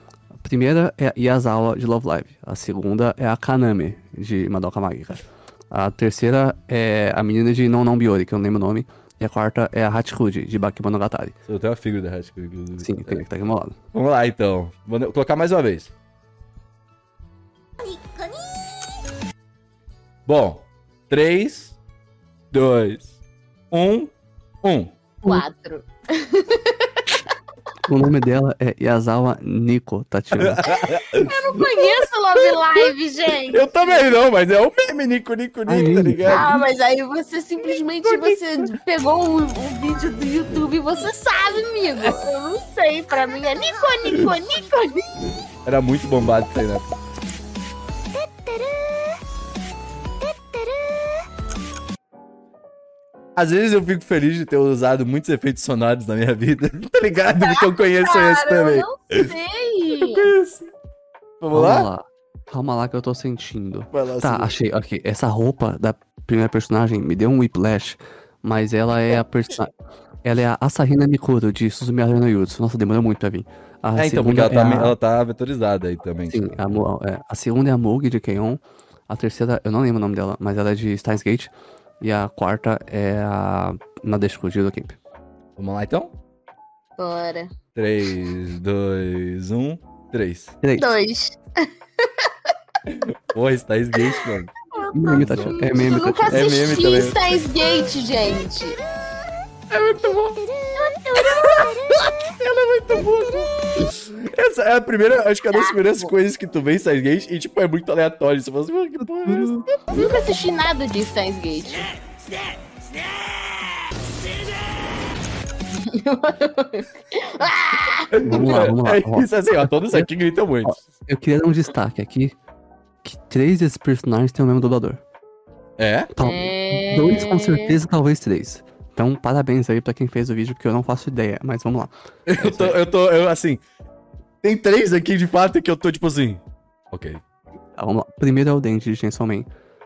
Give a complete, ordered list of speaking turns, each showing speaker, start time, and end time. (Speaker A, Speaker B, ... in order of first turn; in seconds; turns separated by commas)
Speaker A: 0.4-11.3, Speaker B: 11.5-13.2, Speaker A: 12.8-13.8, Speaker B: 13.9-15.9, Speaker C: 17.8-18.8, Speaker B: 20.2-21.8, Speaker B: 22.5-23.1, Speaker B: 23.7-24.1, Speaker B: 24.6-24.9, Speaker D: 25.2-27.1, Speaker A: 27.8-30.7, Speaker B: 30.3-31.9, Speaker D: 30.7-34.1, Speaker B: 33.5-36.6, Speaker A: 35.7-36.6, Speaker D: 36.2-45.1, Speaker B: 38.0-38.6, Speaker C: 43.6-44.3, Speaker B: 45.6-46.9, Speaker C: 48.1-49.2, Speaker C: 50.2-51.2, Speaker B: 53.4-59.3, Speaker D: 57.3-60.3, Speaker B: 60.0-60.7, Speaker B: 61.4-61.9, Speaker A: 61.5-69.7, Speaker B: 63.9-64.5, Speaker A: 70.2-75.0, Speaker B: 74.0-76.6, Speaker A: 76.3-85.0, Speaker B: 85.6-86.1, Speaker D: 87.0-87.5, Speaker B: 87.7-90.5, Speaker A: 90.6-90.9, Speaker D: 90.8-92.3, Speaker B: 92.9-94.5, Speaker D: 94.1-98.8, Speaker A: 94.9-96.5, Speaker B: 95.1-95.6, Speaker B: 96.3-97.4, Speaker B: 99.7-100.4, Speaker C: 99.9-102.3, Speaker D: 100.8-101.5, Speaker B: 101.3-109.9, Speaker C: 102.9-103.5, Speaker D: 105.5-106.1, Speaker A: 109.2-109.6, Speaker D: 109.9-111.9, Speaker D: 115.7-118.1, Speaker B: 118.1-120.8, Speaker A: 118.2-120.1, Speaker A: 120.6-122.3, Speaker A: 123.0-125.0, Speaker B: 125.8-126.1, Speaker A: 126.1-132.8, Speaker D: 126.2-127.8, Speaker B: 132.3-133.6, Speaker B: 134.4-137.2, Speaker A: 137.8-139.5